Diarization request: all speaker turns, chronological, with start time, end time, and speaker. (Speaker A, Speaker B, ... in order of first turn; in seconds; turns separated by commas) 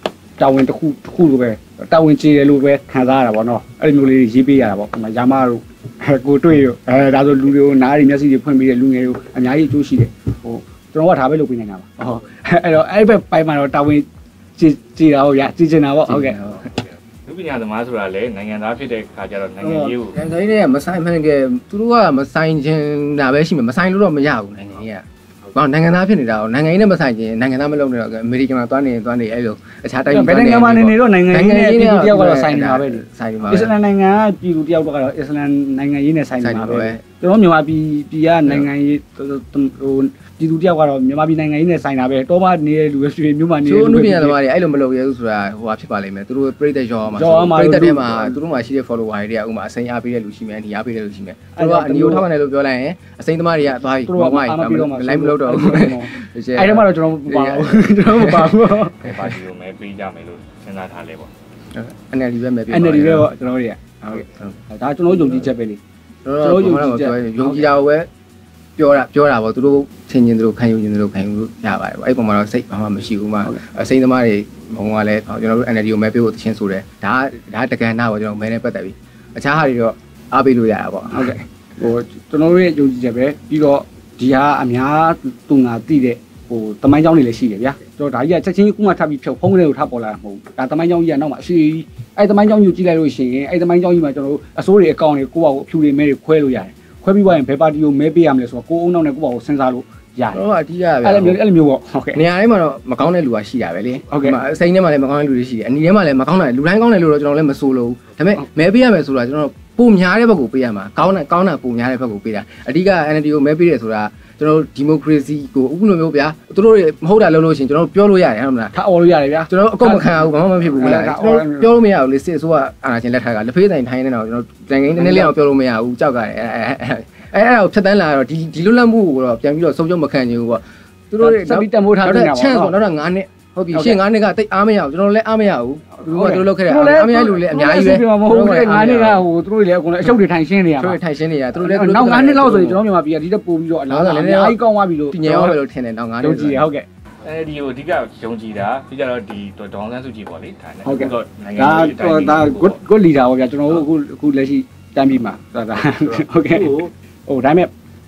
Speaker A: 0.4-16.4, Speaker B: 16.1-16.6, Speaker C: 17.3-20.2, Speaker A: 19.6-19.9, Speaker B: 19.9-33.8, Speaker A: 30.1-44.4, Speaker B: 36.4-37.0, Speaker B: 43.6-58.6, Speaker A: 47.2-48.4, Speaker A: 51.6-52.3, Speaker A: 54.0-59.1, Speaker C: 59.0-61.3, Speaker B: 61.7-63.3, Speaker A: 62.7-65.8, Speaker B: 66.2-68.1, Speaker A: 66.4-67.6, Speaker B: 68.8-81.4, Speaker A: 81.1-100.4, Speaker B: 100.3-101.4, Speaker A: 101.0-102.2, Speaker B: 102.1-118.7, Speaker A: 104.1-104.4, Speaker A: 118.7-121.7, Speaker B: 119.5-139.3, Speaker A: 125.0-125.3, Speaker A: 131.2-132.8, Speaker A: 133.7-134.0, Speaker A: 136.0-141.0, Speaker B: 140.8-142.8, Speaker A: 141.6-145.6, Speaker B: 143.9-146.7, Speaker A: 146.2-146.9, Speaker C: 147.2-152.8, Speaker A: 150.8-157.7, Speaker C: 156.6-156.9